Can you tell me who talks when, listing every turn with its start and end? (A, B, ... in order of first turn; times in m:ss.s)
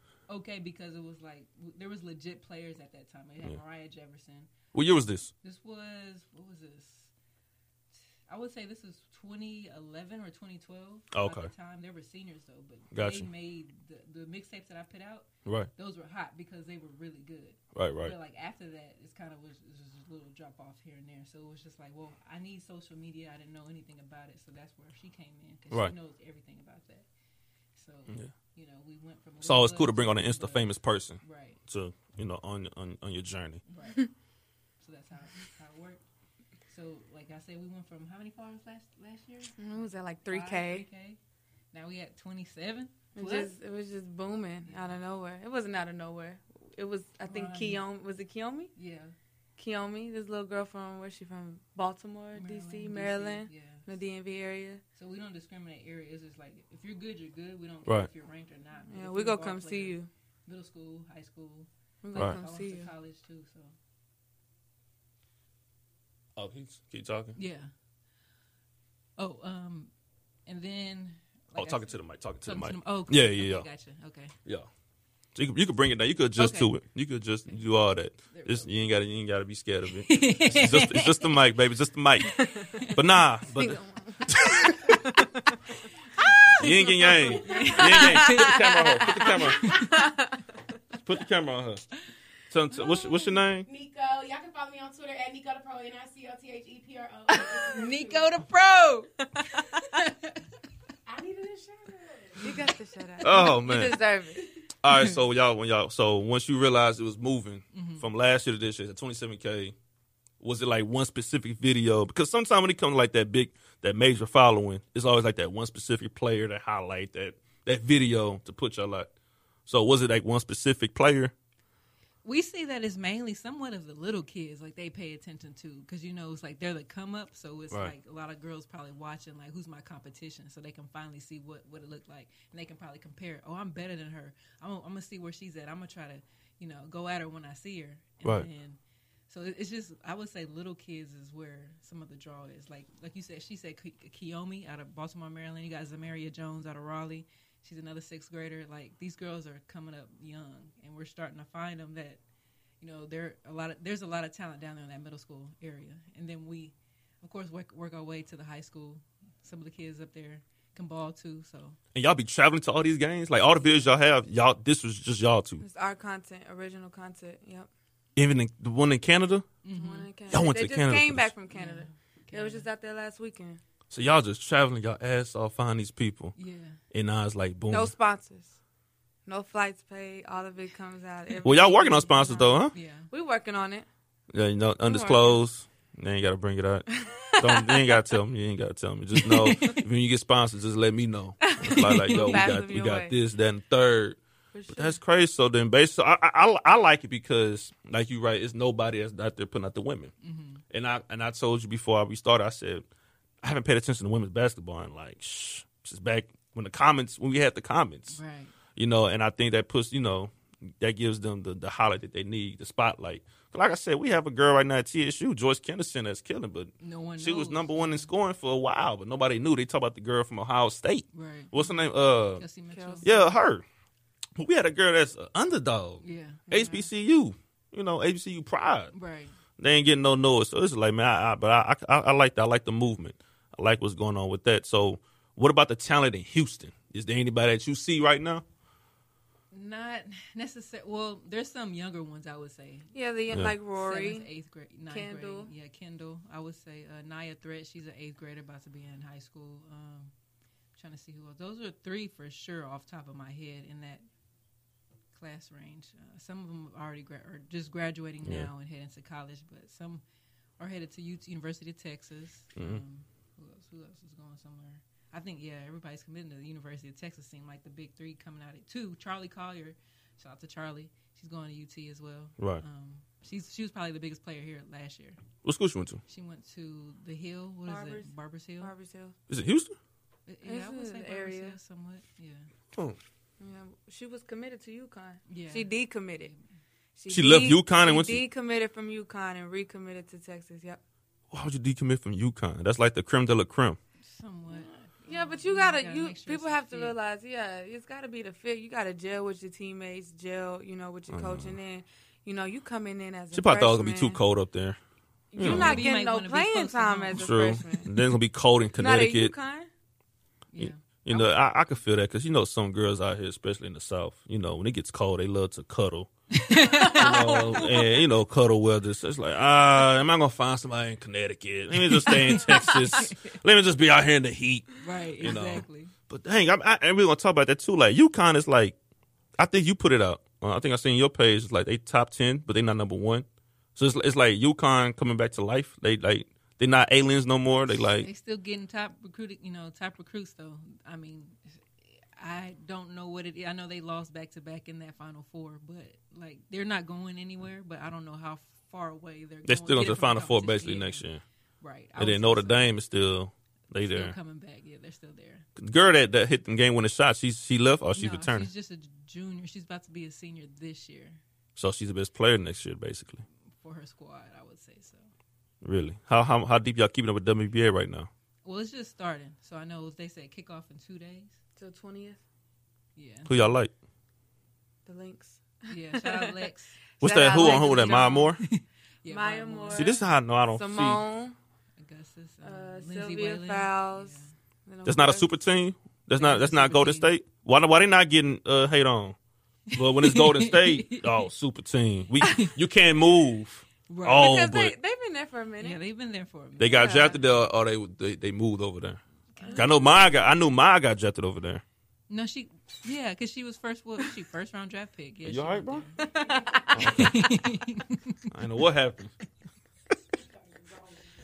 0:00.3-0:04.5 A
0:04.7-0:05.3 B
0:05.4-0:07.1 A
0:08.3-0:27.0 A
0:11.1-0:11.5 B
0:12.9-0:13.3 B
0:15.4-0:15.7 B
0:17.7-0:18.1 B
0:27.7-0:31.6 A
0:29.4-0:33.6 B
0:33.6-0:34.1 A
0:34.8-0:36.0 A
0:36.7-0:41.2 A
0:39.6-0:40.9 C
0:41.7-0:43.5 A
0:43.2-0:48.7 C
0:44.6-0:45.0 A
0:47.2-0:47.8 A
0:48.8-0:49.1 A
0:49.6-0:54.8 C
0:52.3-0:53.8 A
0:55.0-1:03.7 A
0:58.9-1:00.1 C
1:02.0-1:02.9 C
1:06.4-1:07.4 B
1:07.3-1:07.7 A
1:09.2-1:09.9 A
1:10.4-1:14.3 A
1:11.5-1:13.7 B
1:15.3-1:25.1 B
1:16.4-1:16.7 A
1:18.3-1:18.7 A
1:20.0-1:21.4 A
1:22.3-1:22.9 C
1:22.3-1:23.0 A
1:23.5-1:25.7 C
1:26.2-1:30.4 C
1:26.6-1:29.7 B
1:27.1-1:27.8 D
1:27.4-1:28.6 A
1:29.3-1:29.9 D
1:31.0-1:31.8 B
1:32.5-1:33.7 B
1:33.6-1:38.3 D
1:37.7-1:40.4 A
1:41.1-1:42.5 D
1:42.4-1:44.5 C
1:43.2-1:44.0 B
1:44.8-1:49.7 B
1:44.9-1:45.2 A
1:47.7-1:48.0 A
1:50.4-1:59.1 B
1:59.7-2:01.3 B
2:02.2-2:32.2 A
2:18.2-2:18.5 B
2:32.8-2:41.8 A
2:41.9-2:45.6 B
2:45.6-2:47.7 C
2:48.2-2:49.5 B
2:49.6-2:50.1 A
2:49.7-2:53.6 C
2:50.3-2:51.3 B
2:51.5-2:52.7 A
2:53.9-2:56.3 B
2:56.3-2:56.8 A
2:56.9-2:57.9 B
2:57.7-2:58.6 C
2:59.3-3:02.6 C
3:01.4-3:02.7 B
3:02.7-3:03.1 A
3:03.1-3:03.9 C
3:04.3-3:14.2 B
3:04.8-3:05.4 C
3:06.9-3:08.0 C
3:09.4-3:09.8 A
3:09.4-3:09.8 C
3:11.4-3:13.2 C
3:11.6-3:12.6 A
3:14.5-3:15.0 C
3:14.7-3:20.1 B
3:20.2-3:20.6 A
3:20.7-3:22.9 B
3:23.4-3:28.2 B
3:28.1-3:28.5 A
3:28.8-3:42.4 B
3:36.8-3:38.1 A
3:41.1-3:43.1 A
3:42.7-3:43.2 C
3:43.0-3:43.6 B
3:44.4-3:48.9 B
3:46.0-3:46.4 A
3:46.5-3:46.8 C
3:48.9-3:49.4 A
3:49.6-3:58.4 B
3:59.5-4:02.9 A
4:02.9-4:04.3 C
4:03.3-4:03.5 B
4:03.7-4:10.1 A
4:04.9-4:05.5 C
4:10.8-4:14.0 A
4:15.1-4:20.0 A
4:18.2-4:18.5 B
4:20.6-4:35.2 A
4:22.5-4:22.8 B
4:35.4-4:36.0 B
4:36.1-4:38.7 A
4:37.7-4:39.1 C
4:39.3-4:39.8 B
4:40.3-4:42.5 A
4:40.4-4:41.6 C
4:43.4-4:46.3 C
4:45.3-4:45.7 A
4:47.0-4:50.8 C
4:47.1-4:48.2 B
4:51.3-4:53.8 B
4:54.0-4:57.0 A
4:55.1-5:04.2 C
5:01.1-5:01.6 B
5:03.3-5:04.8 B
5:05.3-5:07.9 C
5:05.3-5:05.8 B
5:05.4-5:07.3 A
5:07.1-5:09.3 B
5:08.7-5:09.7 C
5:10.5-5:10.8 A
5:10.6-5:16.1 B
5:16.3-5:17.7 A
5:16.6-5:18.0 C
5:16.8-5:28.8 B
5:21.8-5:23.4 A
5:24.8-5:25.9 A
5:29.4-5:33.2 B
5:33.8-5:38.1 B
5:37.9-5:51.0 A
5:49.4-5:51.2 B
5:51.6-5:52.7 A
5:52.0-5:54.1 B
5:53.7-5:55.4 A
5:55.6-5:58.5 B
5:57.9-6:01.2 A
6:01.6-6:03.2 B
6:03.6-6:05.1 A
6:05.6-6:08.1 B
6:08.4-6:11.4 A
6:11.6-6:12.2 C
6:13.0-6:13.4 A
6:13.3-6:13.7 B
6:14.8-6:16.4 C
6:15.7-6:20.0 A
6:17.0-6:18.3 C
6:17.0-6:18.4 B
6:19.0-6:20.0 C
6:19.7-6:21.0 B
6:20.5-6:21.3 C
6:21.8-6:24.3 A
6:22.4-6:25.3 C
6:24.8-6:29.2 B
6:26.1-6:27.1 A
6:29.7-6:31.3 A
6:29.7-6:34.7 B
6:32.2-6:32.5 A
6:33.9-6:34.3 A
6:34.0-6:35.8 C
6:35.6-6:37.2 A
6:36.6-6:39.0 B
6:36.7-6:37.1 C
6:39.4-6:39.7 A
6:39.4-6:39.7 C
6:39.5-6:41.6 B
6:42.1-6:46.1 A
6:45.2-6:45.9 B
6:46.0-6:47.1 C
6:46.7-6:47.3 B
6:46.8-6:48.3 A
6:48.3-6:49.1 B
6:50.5-6:50.9 D